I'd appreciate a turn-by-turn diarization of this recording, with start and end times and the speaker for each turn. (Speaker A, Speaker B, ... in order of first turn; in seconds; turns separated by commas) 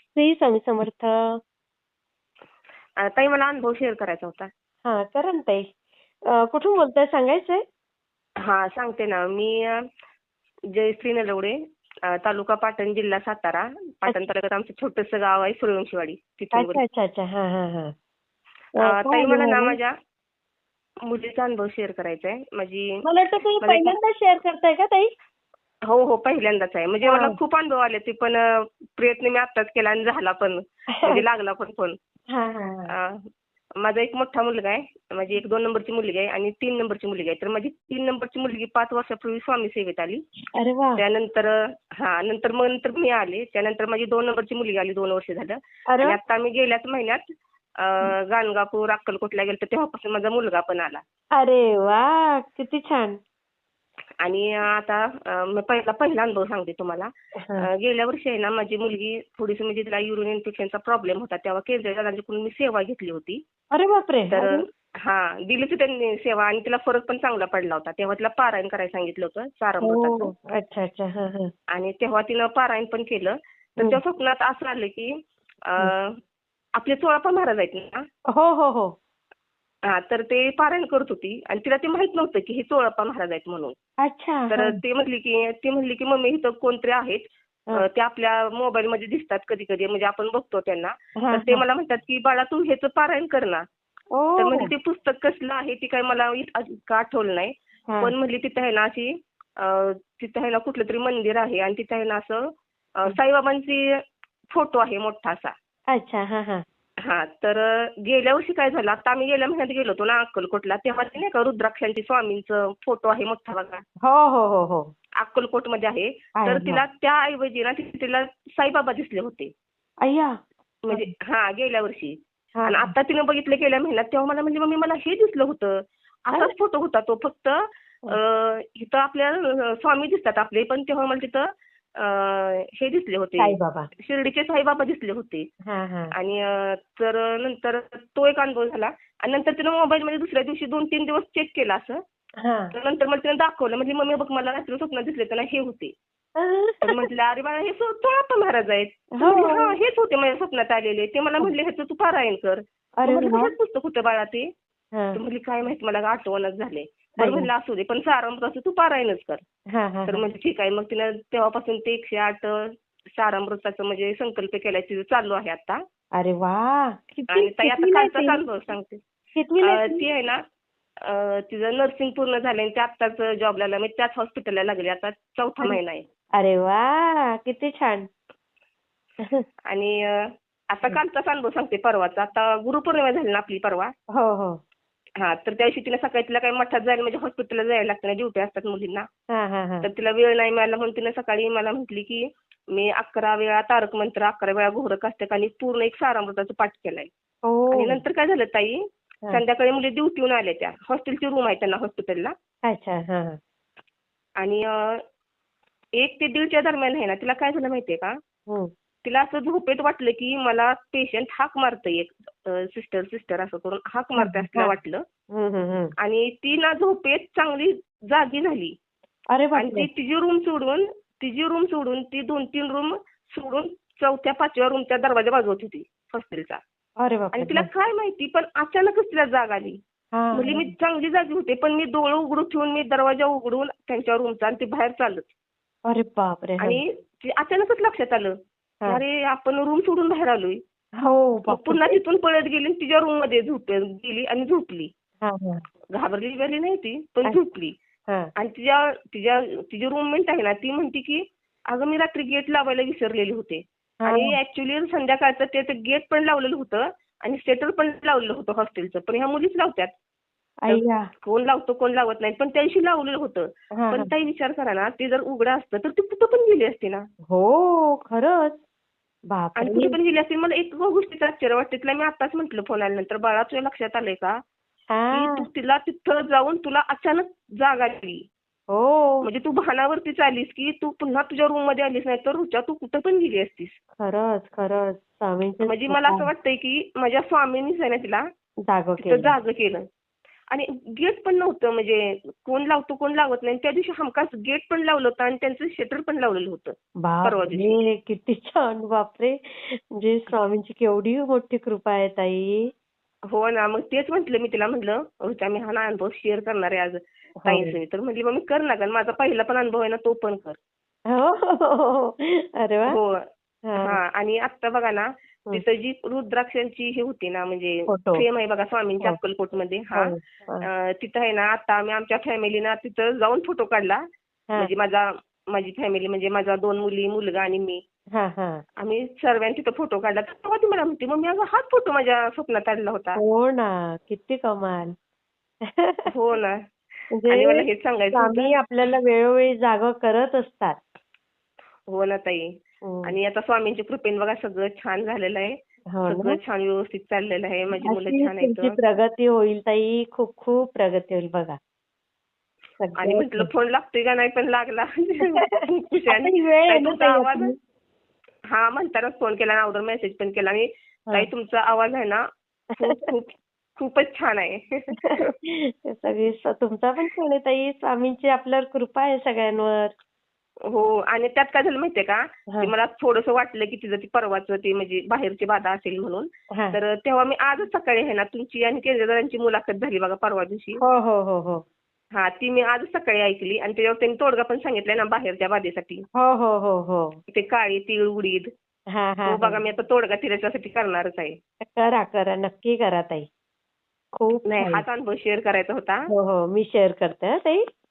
Speaker A: 0.2-1.4, Speaker B: 3.0-4.5, Speaker A: 4.9-5.7, Speaker A: 6.3-7.6, Speaker B: 8.4-9.9, Speaker B: 10.7-16.8, Speaker A: 16.5-17.9, Speaker A: 18.8-19.8, Speaker B: 18.8-19.9, Speaker B: 21.1-23.0, Speaker A: 23.0-25.1, Speaker B: 23.6-24.0, Speaker B: 25.9-32.0, Speaker A: 27.0-27.4, Speaker A: 30.9-31.2, Speaker A: 32.3-32.9, Speaker B: 32.9-33.3, Speaker B: 33.8-40.2, Speaker A: 40.5-41.0, Speaker B: 41.0-47.2, Speaker A: 45.9-46.2, Speaker B: 47.8-51.0, Speaker A: 51.4-53.2, Speaker B: 54.2-63.4, Speaker A: 57.4-57.7, Speaker A: 63.7-64.6, Speaker B: 64.3-70.3, Speaker A: 69.8-71.5, Speaker B: 71.7-76.2, Speaker B: 76.8-78.0, Speaker A: 78.3-78.9, Speaker B: 79.9-83.8, Speaker A: 84.0-84.8, Speaker B: 84.5-93.6, Speaker A: 91.2-91.6, Speaker A: 94.1-94.7, Speaker B: 94.4-104.0, Speaker A: 97.9-98.1, Speaker B: 104.5-105.5, Speaker A: 105.9-106.6, Speaker B: 107.0-113.8, Speaker A: 114.0-114.9, Speaker B: 115.2-119.5, Speaker A: 116.4-116.8, Speaker A: 120.0-120.3, Speaker B: 120.9-135.5, Speaker A: 122.6-122.9, Speaker A: 133.4-133.9, Speaker A: 135.7-136.1, Speaker B: 136.1-142.0, Speaker A: 142.4-142.7, Speaker B: 142.7-145.9, Speaker A: 146.4-147.1, Speaker B: 146.8-154.5, Speaker A: 149.2-149.8, Speaker A: 153.0-153.5, Speaker A: 154.9-155.2, Speaker B: 155.1-159.4, Speaker A: 157.2-157.5, Speaker A: 159.7-160.2, Speaker B: 160.1-165.8, Speaker A: 166.2-168.4, Speaker B: 167.3-169.0, Speaker A: 169.4-170.1, Speaker B: 169.6-170.4, Speaker B: 171.1-176.1, Speaker A: 176.4-178.1, Speaker B: 179.7-183.9, Speaker A: 184.1-184.6, Speaker B: 185.2-189.1, Speaker A: 189.3-189.9, Speaker B: 189.8-197.1, Speaker A: 197.4-198.0, Speaker B: 197.7-202.3, Speaker A: 202.7-203.4, Speaker B: 204.4-205.0, Speaker B: 206.0-208.2, Speaker B: 209.1-215.0, Speaker A: 214.2-214.8, Speaker A: 215.3-215.9, Speaker B: 216.0-218.7, Speaker A: 219.3-219.9, Speaker B: 219.6-226.6, Speaker A: 227.0-227.7, Speaker B: 227.3-229.8, Speaker A: 230.1-230.7, Speaker B: 230.3-235.3, Speaker A: 235.9-236.8, Speaker B: 236.6-240.6, Speaker A: 241.0-242.0, Speaker B: 241.5-244.9, Speaker A: 245.2-245.6, Speaker B: 245.9-247.7, Speaker B: 248.4-259.9, Speaker A: 254.0-254.4, Speaker A: 260.6-261.1, Speaker B: 260.7-267.1, Speaker A: 263.8-264.1, Speaker A: 267.3-268.6, Speaker A: 269.3-270.0, Speaker B: 269.6-274.4, Speaker A: 274.9-275.4, Speaker B: 275.1-278.2, Speaker A: 278.7-279.2, Speaker B: 279.2-283.8, Speaker A: 284.0-286.3, Speaker B: 285.6-288.2, Speaker A: 288.7-289.3, Speaker B: 289.0-289.9, Speaker B: 290.5-297.7, Speaker A: 297.0-302.7, Speaker B: 303.3-310.6, Speaker A: 307.4-307.8, Speaker A: 311.1-313.0, Speaker B: 312.9-313.2, Speaker A: 313.7-314.0, Speaker B: 313.8-324.1, Speaker A: 317.9-318.2, Speaker A: 319.9-320.7, Speaker B: 324.6-327.8, Speaker A: 328.1-328.6, Speaker B: 328.8-333.2, Speaker A: 333.2-334.9, Speaker A: 335.6-336.1, Speaker B: 336.1-336.6, Speaker A: 337.1-340.8, Speaker B: 337.3-338.6, Speaker B: 341.9-345.6, Speaker A: 342.8-343.1, Speaker A: 345.9-346.4, Speaker B: 346.1-348.8, Speaker A: 347.8-351.6, Speaker A: 352.8-353.5, Speaker B: 353.0-357.5, Speaker A: 355.4-357.6, Speaker B: 358.5-365.3, Speaker A: 365.0-369.9, Speaker B: 370.7-380.8, Speaker A: 380.8-381.6, Speaker B: 382.1-386.0, Speaker A: 386.1-387.2, Speaker B: 387.3-388.5, Speaker A: 388.9-389.6, Speaker B: 389.3-391.4, Speaker A: 391.6-393.3, Speaker A: 394.2-394.8, Speaker B: 394.4-396.0, Speaker A: 396.1-397.6